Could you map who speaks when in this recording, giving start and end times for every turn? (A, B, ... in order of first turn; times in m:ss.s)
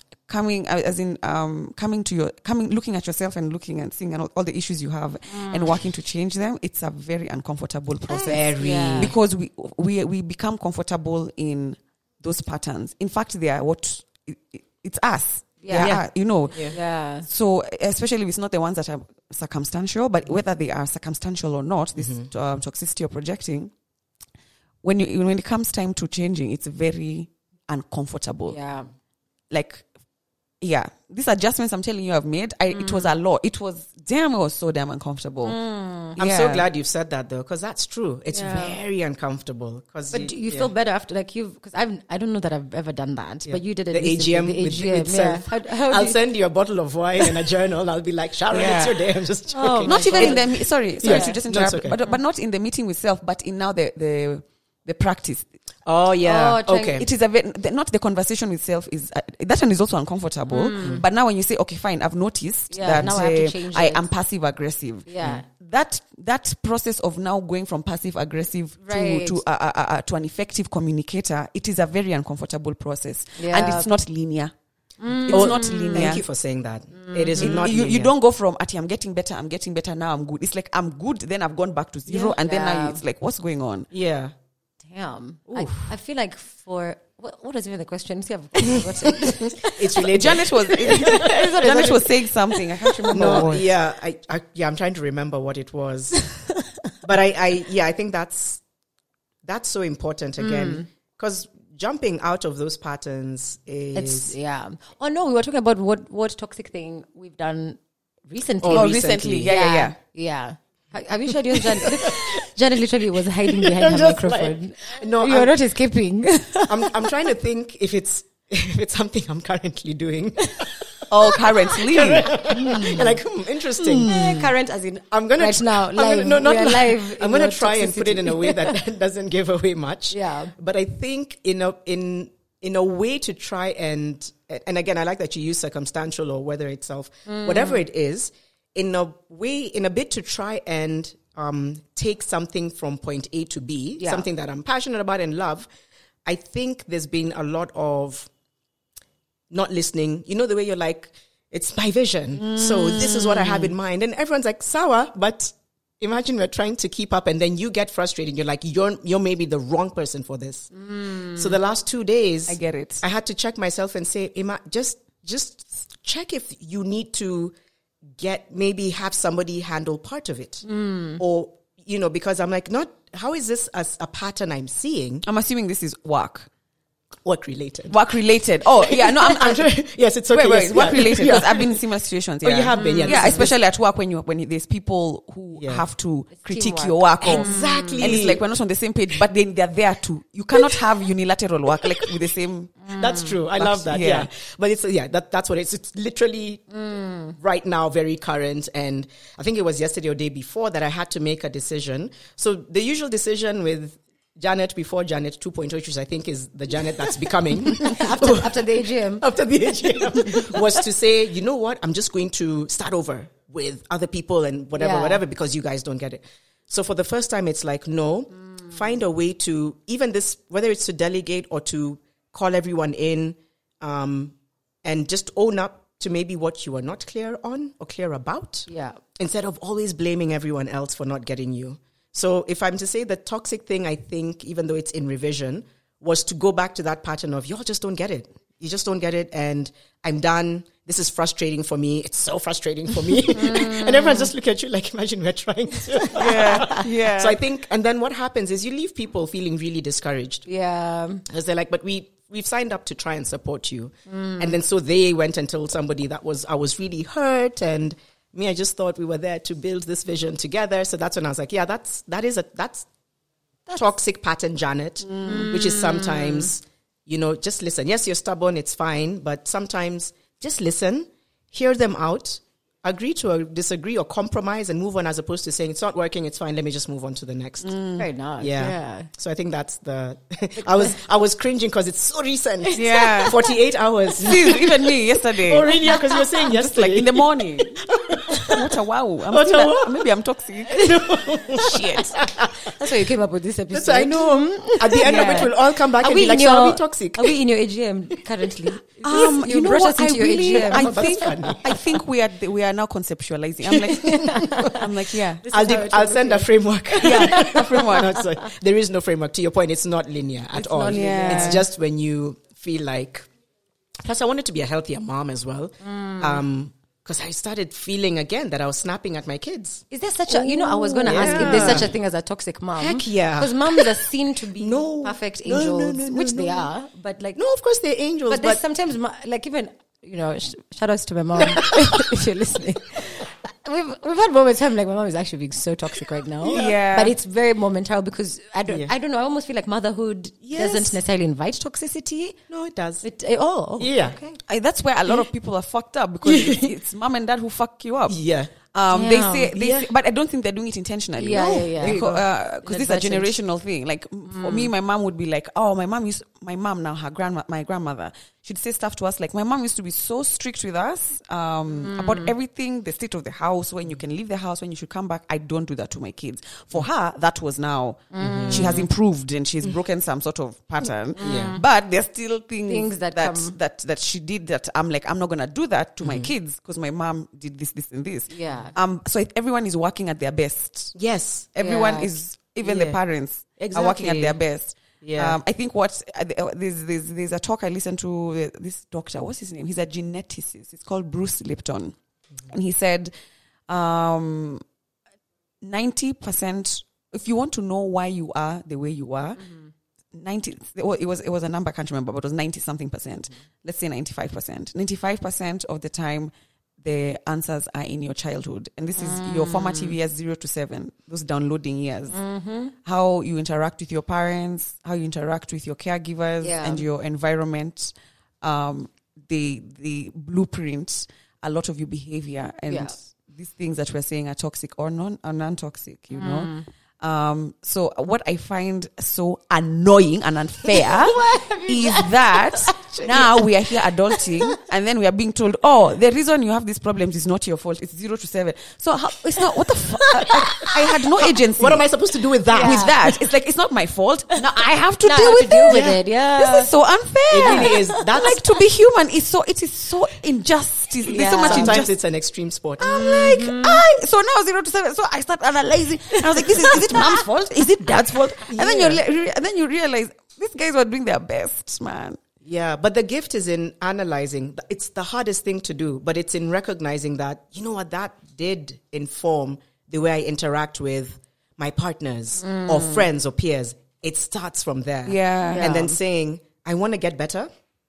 0:00.3-0:23.7 A
0:05.3-0:05.7 B
0:08.1-0:09.1 B
0:08.3-0:09.2 C
0:15.6-0:17.3 B
0:15.7-0:16.8 C
0:22.0-0:22.3 C
0:24.8-0:28.6 A
0:28.5-0:28.9 B
0:29.5-0:29.9 A
0:30.6-0:35.6 A
0:32.7-0:33.1 B
0:35.5-0:36.2 B
0:36.2-0:36.6 A
0:36.2-0:40.7 C
0:38.3-0:38.8 B
0:40.1-0:46.2 B
0:43.5-0:52.0 C
0:48.5-0:49.0 A
0:49.5-0:50.5 B
0:49.9-0:55.5 A
0:51.0-0:51.4 B
0:55.9-0:57.1 C
0:56.2-0:57.0 B
0:56.9-1:14.5 A
1:00.5-1:01.0 B
1:02.7-1:04.1 B
1:02.9-1:03.2 C
1:05.1-1:05.4 B
1:08.8-1:09.4 B
1:13.4-1:13.9 B
1:15.0-1:16.1 B
1:15.2-1:16.2 A
1:15.3-1:18.1 C
1:16.9-1:17.6 B
1:17.4-1:23.9 A
1:22.1-1:22.4 C
1:22.4-1:23.0 B
1:23.9-1:24.3 C
1:24.9-1:33.5 B
1:25.5-1:25.9 C
1:29.7-1:31.2 C
1:30.1-1:33.6 A
1:33.1-1:36.3 C
1:37.0-1:38.6 C
1:39.4-1:44.4 C
1:40.4-1:40.9 B
1:44.0-1:57.0 B
1:48.6-1:49.5 C
1:48.7-1:50.0 A
1:51.6-1:52.5 C
1:53.4-1:55.6 C
1:56.7-2:04.1 C
2:01.1-2:03.1 A
2:03.8-2:04.4 A
2:04.1-2:08.7 B
2:05.1-2:25.7 C
2:10.1-2:10.5 B
2:17.3-2:17.8 B
2:24.0-2:24.2 B
2:26.2-2:28.3 C
2:29.5-2:40.7 C
2:32.4-2:33.7 A
2:40.8-2:41.4 B
2:41.4-2:47.5 C
2:42.5-2:43.0 A
2:48.2-2:55.2 C
2:50.6-2:51.2 B
2:55.3-2:56.5 A
2:57.2-2:58.0 C
2:57.9-2:59.7 A
2:58.8-3:01.8 C
3:00.3-3:14.3 A
3:02.4-3:03.6 C
3:02.8-3:03.5 B
3:05.6-3:05.8 C
3:06.4-3:08.0 B
3:07.2-3:08.4 C
3:11.8-3:12.1 C
3:12.9-3:13.2 B
3:12.9-3:16.6 C
3:16.7-3:17.4 B
3:17.4-4:10.5 C
3:27.7-3:29.3 B
3:29.8-3:30.6 B
3:34.8-3:35.2 B
3:48.7-3:49.0 B
4:03.3-4:04.3 B
4:06.1-4:07.4 A
4:10.5-4:11.2 B
4:11.3-4:22.9 C
4:14.1-4:14.6 B
4:23.7-4:37.8 C
4:25.1-4:25.6 A
4:25.2-4:26.5 B
4:37.6-4:38.0 A
4:38.0-4:39.1 B
4:38.4-4:44.8 C
4:40.6-4:40.9 B
4:42.7-4:43.3 B
4:42.8-4:43.4 A
4:44.2-4:45.7 A
4:45.4-4:48.6 C
4:46.4-4:47.8 A
4:48.5-4:52.1 A
4:49.3-4:50.0 C
4:50.7-4:52.8 C
4:52.8-5:01.2 B
4:53.7-4:57.4 C
4:55.0-4:55.5 A
4:59.0-5:05.4 A
4:59.0-4:59.3 C
5:00.5-5:01.7 C
5:03.7-5:04.5 C
5:04.2-5:04.8 B
5:05.4-5:08.2 B
5:05.5-5:13.3 C
5:07.0-5:08.2 A
5:10.6-5:11.6 B
5:10.9-5:11.6 A
5:14.0-5:21.9 C
5:15.8-5:16.4 B
5:19.9-5:27.4 B
5:21.0-5:21.9 A
5:22.8-5:23.9 C
5:24.6-5:26.7 C
5:27.4-5:28.6 C
5:28.3-5:42.4 B
5:31.4-5:32.0 C
5:36.4-5:36.8 C
5:36.5-5:37.1 A
5:40.4-5:41.0 C
5:42.5-5:43.0 C
5:43.0-5:44.4 B
5:43.8-5:44.2 C
5:44.5-5:48.2 A
5:46.2-5:46.7 C
5:48.1-5:48.5 C
5:48.7-6:21.0 A
5:48.9-5:49.5 B
5:49.5-5:49.9 C
5:51.2-5:52.0 B
5:51.3-5:52.2 C
5:52.6-5:53.4 B
5:54.3-5:54.7 B
6:01.8-6:02.3 B
6:08.1-6:08.8 B
6:08.2-6:08.8 C
6:10.8-6:11.6 C
6:11.2-6:11.6 B
6:12.7-6:13.6 B
6:16.0-6:16.3 C
6:18.3-6:18.7 B
6:21.0-6:21.5 C
6:21.5-6:32.0 A
6:21.6-6:22.1 B
6:22.6-6:23.0 C
6:23.6-6:24.4 C
6:25.0-6:25.4 C
6:32.5-6:33.1 A
6:33.7-6:34.6 A
6:35.6-6:39.4 A
6:40.1-6:46.3 A
6:46.8-6:52.2 A
6:49.0-6:49.9 B
6:52.1-6:52.7 B
6:52.8-7:21.8 A
6:56.4-6:56.8 B
7:02.7-7:03.0 B
7:06.2-7:06.7 B
7:11.1-7:12.6 B
7:12.7-7:13.5 C
7:21.2-7:23.2 C
7:22.5-7:22.9 B
7:22.5-7:31.9 A
7:25.0-7:26.7 B
7:25.7-7:26.0 C
7:27.3-7:28.5 C
7:27.4-7:28.0 B
7:31.1-7:31.8 B
7:31.4-7:33.1 C
7:32.8-7:42.2 A
7:32.8-7:33.8 B
7:36.4-7:37.7 B
7:38.5-7:39.0 C
7:42.4-7:57.5 C
7:52.4-7:53.1 B
7:55.1-7:55.8 A
7:55.5-7:55.9 B